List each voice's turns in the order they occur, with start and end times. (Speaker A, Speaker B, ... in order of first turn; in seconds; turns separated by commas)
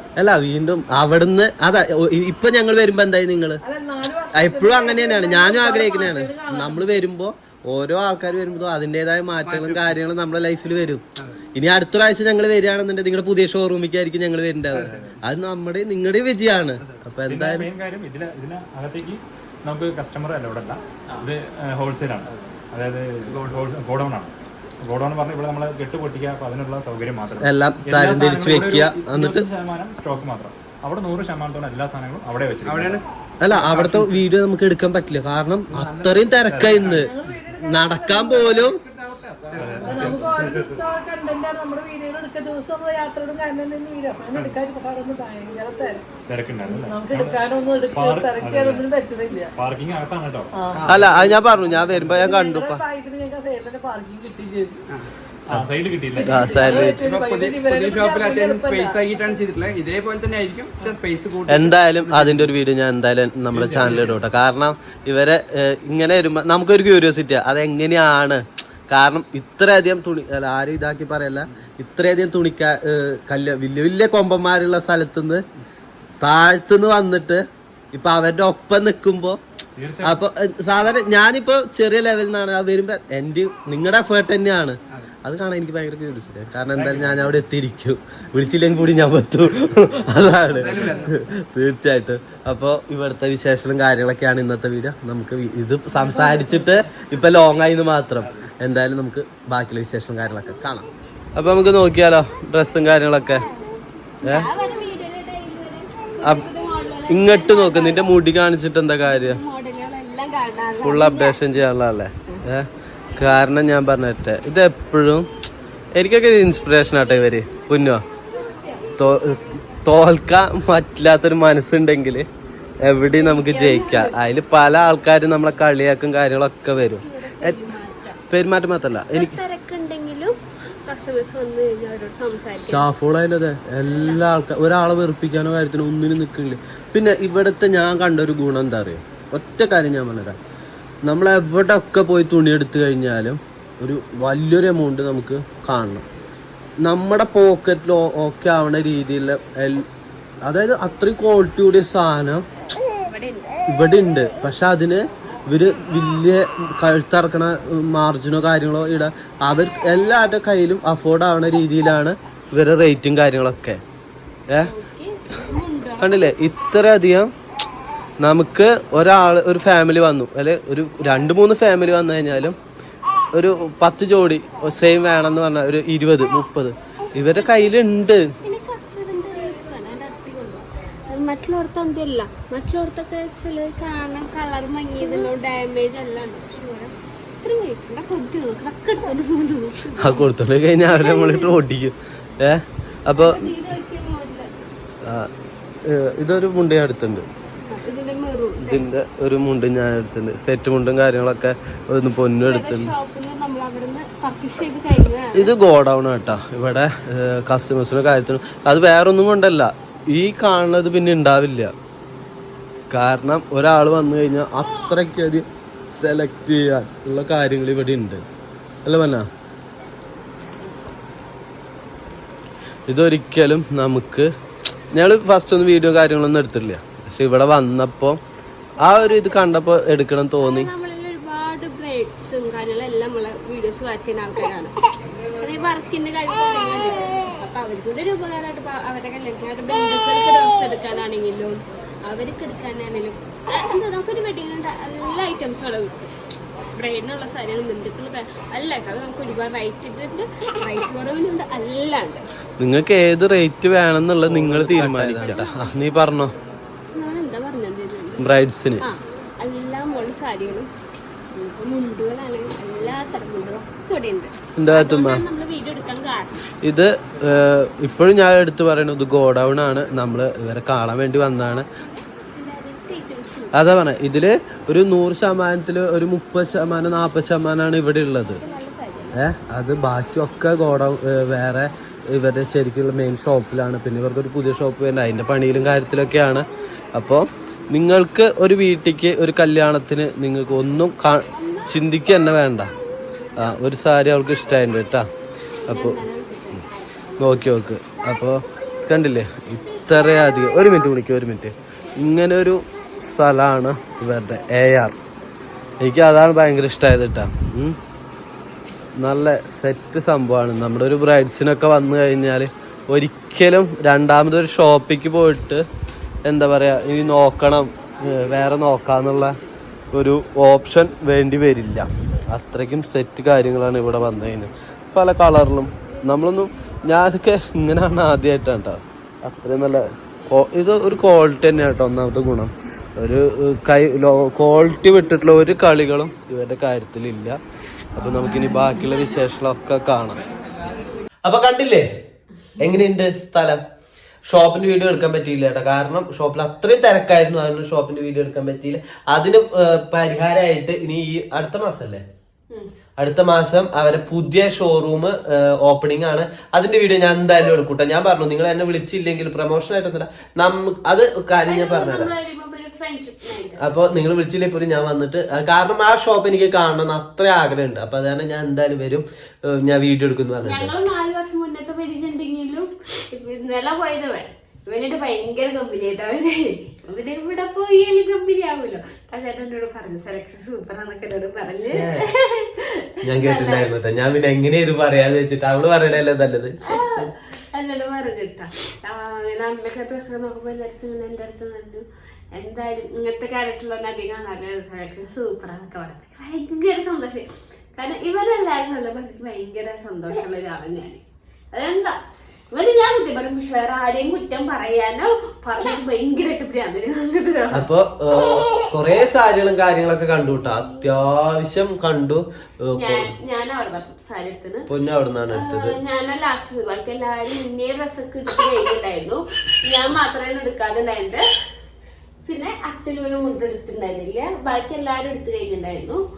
Speaker A: 0.2-3.6, Speaker B: 3.6-7.0, Speaker A: 4.3-17.7, Speaker C: 9.4-9.9, Speaker C: 11.2-11.4, Speaker C: 14.7-15.0, Speaker D: 14.7-15.2, Speaker D: 17.3-33.0, Speaker C: 23.2-23.6, Speaker A: 27.4-29.4, Speaker C: 32.6-34.2, Speaker A: 33.4-38.8, Speaker D: 35.7-37.1, Speaker B: 36.8-38.8, Speaker C: 38.9-40.6, Speaker D: 39.5-40.8, Speaker B: 39.8-46.0, Speaker D: 46.3-47.4, Speaker B: 46.7-49.5, Speaker D: 47.9-48.9, Speaker D: 49.5-51.1, Speaker B: 50.6-54.8, Speaker A: 50.9-52.8, Speaker D: 55.5-56.7, Speaker B: 56.1-59.0, Speaker A: 56.2-57.0, Speaker C: 56.7-62.5, Speaker A: 61.5-75.4, Speaker D: 63.5-64.2, Speaker A: 76.2-79.4, Speaker D: 79.8-80.2, Speaker A: 80.0-103.4, Speaker D: 86.7-87.4, Speaker C: 90.5-91.2, Speaker E: 103.1-108.2, Speaker A: 104.2-104.5, Speaker A: 106.2-106.5, Speaker A: 107.1-109.4, Speaker E: 109.0-111.4, Speaker A: 110.8-115.3, Speaker A: 115.9-118.0, Speaker E: 118.3-118.9, Speaker A: 119.0-122.3, Speaker A: 122.8-127.6, Speaker E: 123.0-124.2, Speaker E: 126.7-128.2, Speaker A: 128.3-129.4, Speaker E: 129.1-132.9, Speaker A: 132.6-140.3, Speaker E: 133.8-134.2, Speaker A: 141.1-146.1, Speaker A: 146.8-149.9, Speaker A: 150.4-152.4, Speaker E: 153.0-153.6, Speaker A: 153.7-163.8, Speaker E: 164.6-166.4, Speaker A: 166.0-167.3, Speaker A: 168.2-172.6, Speaker A: 173.3-178.2, Speaker E: 177.3-177.8, Speaker E: 178.4-190.2, Speaker A: 190.0-193.5, Speaker E: 190.9-191.6, Speaker E: 193.1-194.5, Speaker A: 195.0-195.3, Speaker A: 195.8-197.3, Speaker E: 197.7-198.9, Speaker A: 198.6-202.9, Speaker E: 202.4-205.5, Speaker A: 205.3-211.7, Speaker A: 212.9-218.2, Speaker A: 218.8-219.3, Speaker A: 222.9-224.3, Speaker A: 224.9-228.2, Speaker A: 228.8-230.7, Speaker E: 228.8-229.5, Speaker E: 230.4-234.7, Speaker E: 235.2-246.1, Speaker E: 246.7-252.2, Speaker A: 252.6-256.3, Speaker C: 254.3-255.3, Speaker E: 255.1-255.8, Speaker E: 256.9-260.7, Speaker A: 258.2-258.8, Speaker E: 261.3-266.4, Speaker A: 264.6-265.2, Speaker A: 266.6-271.7, Speaker E: 272.1-273.6, Speaker A: 273.5-278.4, Speaker E: 278.4-279.2, Speaker A: 279.1-292.7, Speaker E: 291.4-291.8, Speaker A: 293.4-295.1, Speaker E: 295.6-297.5, Speaker A: 295.7-296.0, Speaker A: 297.2-304.9, Speaker E: 299.8-300.5, Speaker A: 305.8-307.8, Speaker A: 309.0-315.6, Speaker A: 316.2-319.4, Speaker A: 319.9-337.4, Speaker A: 337.9-340.2, Speaker A: 341.2-341.9, Speaker A: 342.6-343.6, Speaker A: 344.2-352.0, Speaker A: 353.0-362.1, Speaker E: 361.4-363.8, Speaker A: 363.6-370.7, Speaker E: 370.4-383.7, Speaker A: 381.7-382.1, Speaker A: 383.0-387.1, Speaker E: 386.6-401.0, Speaker E: 401.5-402.0, Speaker E: 402.5-407.7, Speaker A: 407.5-413.1, Speaker E: 412.7-414.7, Speaker A: 414.7-415.8, Speaker E: 415.3-421.2, Speaker E: 422.2-426.0